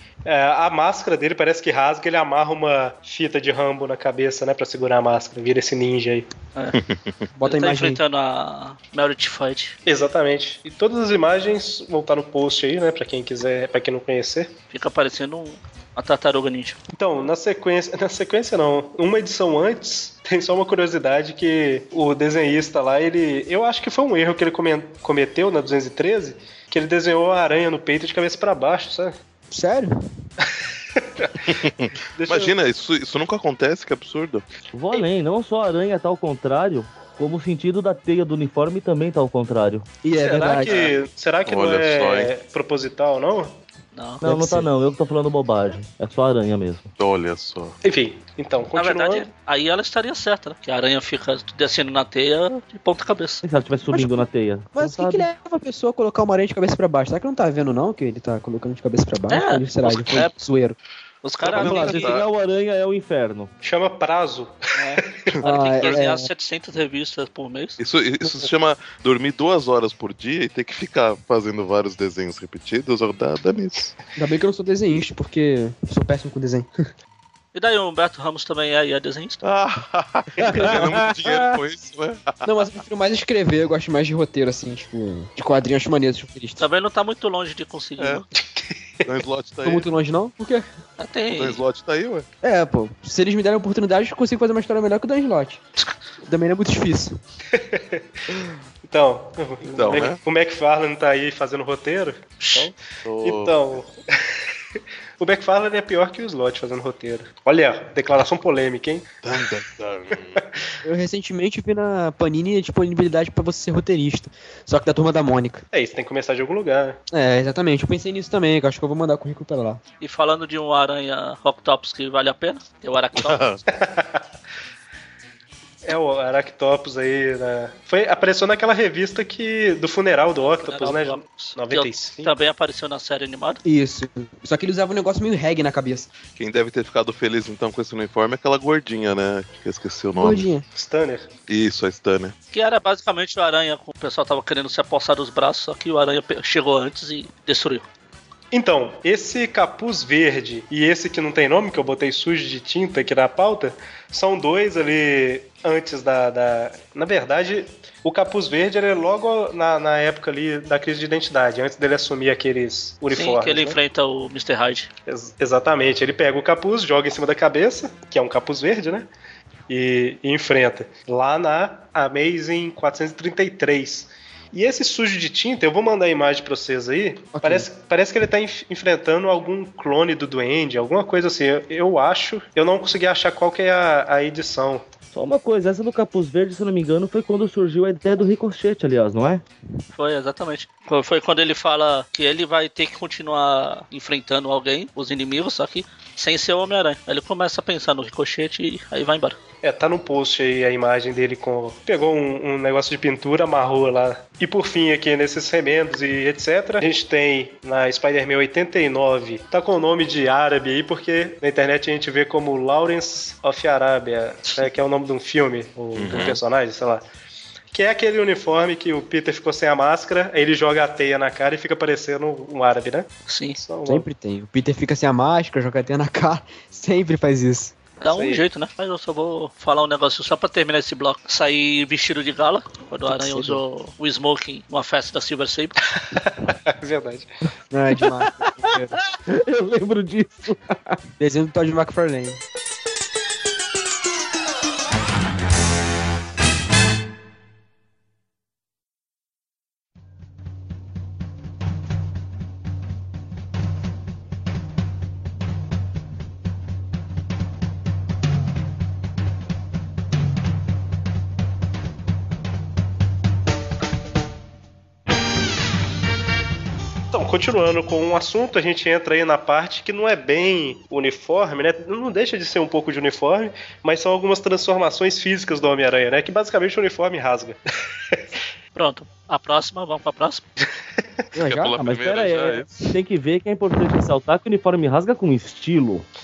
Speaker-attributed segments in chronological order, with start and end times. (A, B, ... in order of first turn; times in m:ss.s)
0:00.3-0:06.3 A
0:06.8-0:07.2 B
0:07.4-0:08.0 C
0:07.4-0:09.8 D
0:09.9-0:14.5 A
0:14.7-0:16.8 D
0:16.9-0:29.2 A
0:29.5-0:30.0 C
0:30.4-0:31.4 A
0:31.5-0:34.4 B
0:32.2-0:32.5 A
0:34.7-0:39.9 E
0:40.0-0:40.8 C
0:40.2-0:43.6 A
0:40.6-0:40.9 D
0:41.5-0:42.3 B
0:43.9-0:44.2 D
0:44.2-0:44.7 C
0:44.2-0:46.9 E
0:47.0-0:47.8 B
0:47.8-0:49.3 A
0:48.8-0:53.4 D
0:53.4-0:55.3 E
0:53.9-1:00.8 C
0:59.3-1:00.4 D
1:01.2-1:02.2 D
1:01.4-1:02.3 B
1:01.6-1:03.5 E
1:03.6-1:05.3 A
1:04.8-1:07.8 D
1:05.4-1:06.3 C
1:07.8-1:13.9 B
1:14.2-1:16.7 C
1:17.5-1:19.4 D
1:19.4-1:22.4 B
1:20.5-1:21.5 C
1:22.4-1:26.6 C
1:26.6-1:28.2 D
1:28.0-1:28.2 B
1:28.3-1:29.2 A
1:29.1-1:29.9 B
1:29.6-1:30.7 C
1:31.0-1:31.6 D
1:31.4-1:32.3 B
1:32.4-1:35.6 C
1:36.3-1:37.2 C
1:37.5-1:38.0 A
1:38.9-1:43.9 A
1:39.7-1:40.2 B
1:42.4-1:42.7 D
1:43.1-1:43.6 B
1:45.2-1:49.1 A
1:49.2-1:50.4 B
1:50.8-1:55.6 C
1:55.7-1:57.0 A
1:57.1-1:59.8 C
2:00.0-2:03.6 D
2:03.2-2:03.6 B
2:03.7-2:04.2 A
2:05.9-2:12.3 A
2:10.7-2:13.6 D
2:13.6-2:16.1 C
2:16.4-2:20.5 B
2:20.2-2:20.6 C
2:20.8-2:21.3 A
2:21.5-2:22.3 B
2:22.5-2:27.9 D
2:28.5-2:43.8 A
2:43.1-2:44.9 D
2:45.1-2:49.1 A
2:49.7-3:04.9 A
2:57.3-2:57.7 C
3:05.1-3:09.4 E
3:09.9-3:19.4 D
3:19.6-3:37.0 A
3:36.0-3:36.4 B
3:37.7-3:44.0 A
3:43.3-3:43.6 D
3:43.9-3:47.8 C
3:48.0-3:55.8 D
3:48.1-3:48.4 A
3:53.1-3:53.6 C
3:56.0-3:57.3 A
3:57.7-3:59.0 C
3:58.0-4:01.0 E
4:01.2-4:02.4 C
4:27.1-4:37.6 A
4:38.8-4:40.4 D
4:41.4-4:41.8 C
4:41.4-4:42.7 B
4:41.8-4:46.0 E